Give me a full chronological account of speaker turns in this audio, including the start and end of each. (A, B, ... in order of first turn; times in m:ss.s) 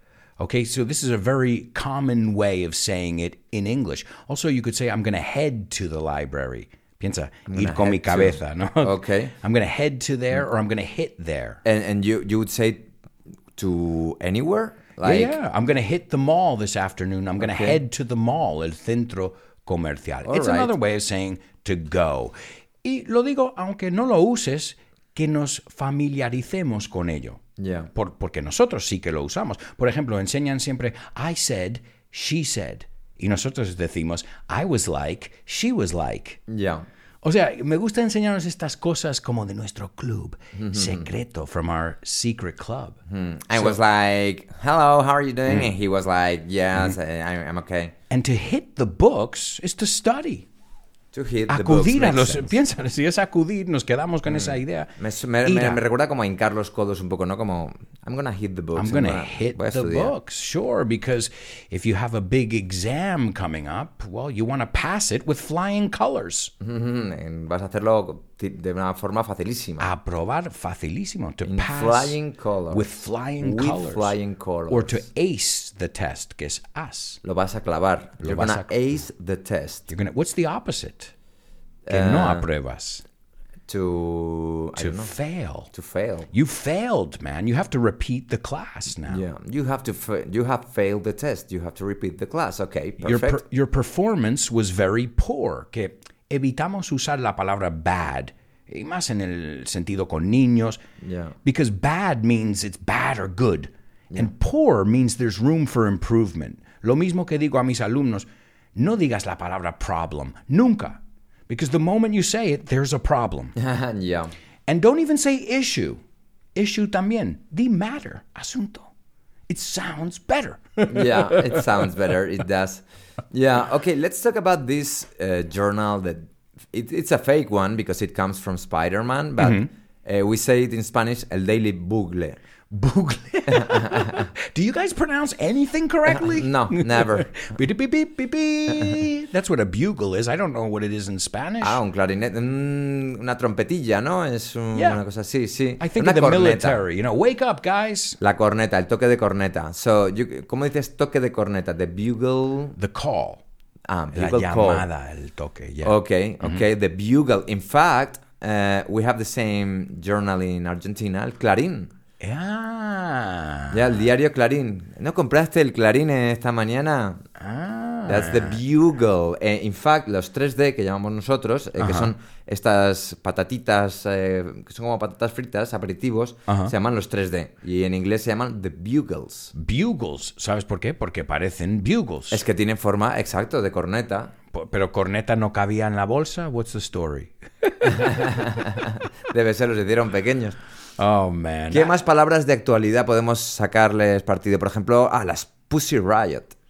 0:00.4-0:11.6 A
0:07.5-0:09.3 B
0:11.6-0:12.8 B
0:13.6-0:15.4 B
0:15.0-0:27.4 A
0:17.4-0:17.8 B
0:20.2-0:20.7 B
0:27.6-0:27.9 B
0:27.9-0:36.4 A
0:36.5-0:36.8 B
0:37.2-0:43.0 A
0:40.5-0:41.1 B
0:43.1-0:47.9 B
0:48.1-0:50.4 A
0:51.1-0:52.6 B
0:51.5-0:54.9 A
0:54.3-1:00.1 B
0:55.4-0:55.8 A
0:58.7-1:06.5 A
1:06.6-1:09.9 B
1:09.8-1:12.2 A
1:11.4-1:12.9 B
1:12.7-1:14.1 A
1:13.4-1:15.0 B
1:14.7-1:17.2 A
1:17.2-1:19.9 B
1:18.2-1:18.7 A
1:19.9-1:21.1 A
1:21.8-1:22.4 B
1:21.9-1:23.0 A
1:23.7-1:25.1 B
1:24.8-1:25.7 A
1:25.7-1:26.3 B
1:26.3-1:29.2 A
1:29.0-1:33.4 B
1:33.0-1:40.8 A
1:41.0-1:41.3 B
1:41.4-1:53.6 A
1:53.6-1:54.3 B
1:54.7-1:56.0 A
1:56.6-1:58.9 A
1:59.5-2:01.6 A
2:00.9-2:12.4 B
2:09.4-2:09.7 A
2:12.7-2:21.8 A
2:13.5-2:14.3 B
2:16.1-2:17.4 B
2:21.6-2:26.8 B
2:24.7-2:25.0 A
2:25.8-2:28.2 A
2:28.2-2:32.8 B
2:32.8-2:33.4 A
2:33.9-2:34.9 B
2:34.1-2:36.6 A
2:35.8-2:41.9 B
2:42.2-2:43.8 A
2:43.7-2:47.2 B
2:47.4-2:48.6 A
2:48.0-2:59.5 B
2:51.8-2:52.1 A
2:56.5-2:56.7 A
2:59.5-3:02.4 A
3:02.3-3:04.3 B
3:04.5-3:08.2 A
3:07.9-3:10.6 B
3:11.0-3:12.0 A
3:11.7-3:16.6 B